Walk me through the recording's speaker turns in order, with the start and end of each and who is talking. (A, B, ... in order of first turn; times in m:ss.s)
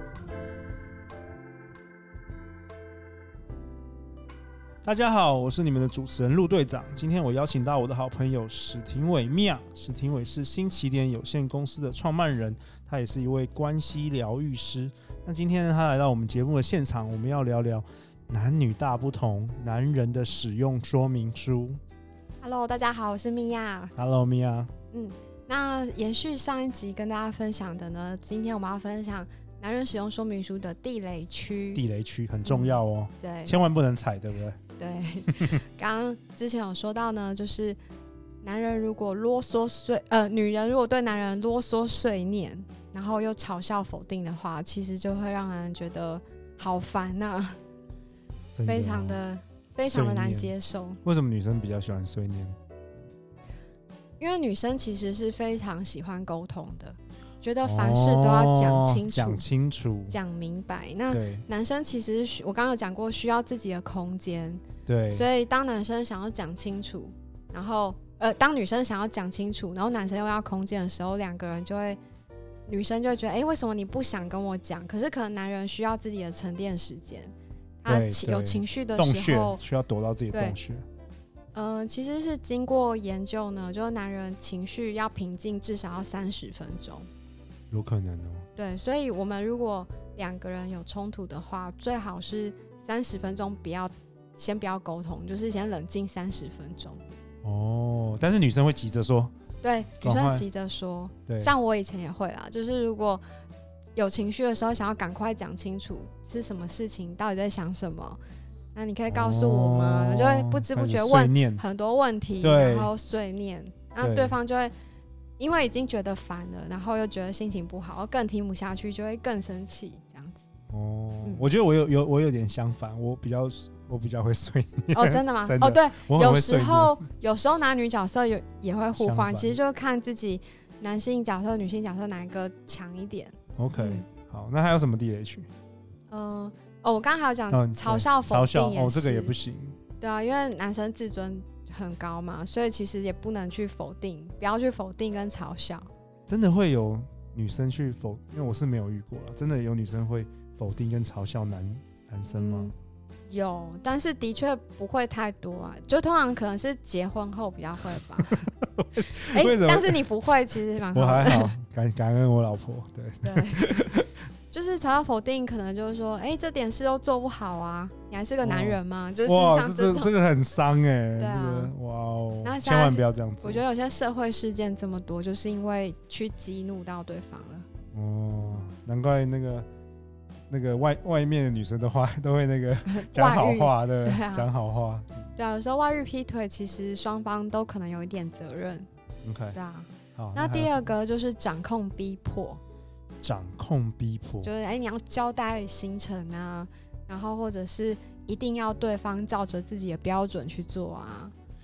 0:04.8-0:21.8 A
0:22.4-0:24.0 B
0:24.0-0:24.7 A
0:24.9-0:31.8 B
0:31.8-0:34.6 A
0:32.5-0:33.6 B
0:34.8-0:37.8 B
0:38.4-0:47.6 B
0:48.5-0:49.2 A
0:48.7-0:51.0 B
0:49.8-0:50.5 A
0:51.0-0:52.6 A
0:54.2-0:59.4 B
0:57.6-1:00.2 A
1:00.1-1:12.0 B
1:01.1-1:01.4 A
1:04.9-1:05.3 A
1:12.7-1:19.6 B
1:17.9-1:20.8 A
1:20.3-1:20.6 B
1:21.5-1:27.1 B
1:27.7-1:28.5 A
1:28.6-1:37.0 B
1:37.4-1:39.3 A
1:39.6-1:43.2 B
1:40.0-1:40.4 A
1:41.3-1:41.5 A
1:44.0-1:48.2 B
1:48.8-1:54.7 B
1:49.1-1:51.6 A
1:52.4-1:52.9 A
1:54.0-1:54.4 A
1:55.4-2:00.4 B
2:00.7-2:07.0 A
2:04.9-2:14.0 B
2:09.0-2:09.6 A
2:13.6-2:15.5 A
2:16.1-2:19.4 B
2:17.5-2:19.8 A
2:20.0-2:25.9 B
2:26.3-2:32.7 A
2:32.2-2:32.7 B
2:33.3-2:38.5 B
2:38.6-2:40.0 A
2:39.2-2:41.5 B
2:40.9-2:44.1 A
2:43.2-2:43.9 B
2:44.5-2:50.1 B
2:48.4-2:53.6 A
2:51.2-2:51.7 B
2:52.4-2:57.7 B
2:57.9-2:59.7 A
3:00.5-3:05.3 A
3:02.9-3:04.5 B
3:05.4-3:08.9 B
3:09.2-3:09.6 A
3:09.5-3:12.6 B
3:10.2-3:10.9 A
3:13.2-3:14.5 A
3:14.4-3:21.4 B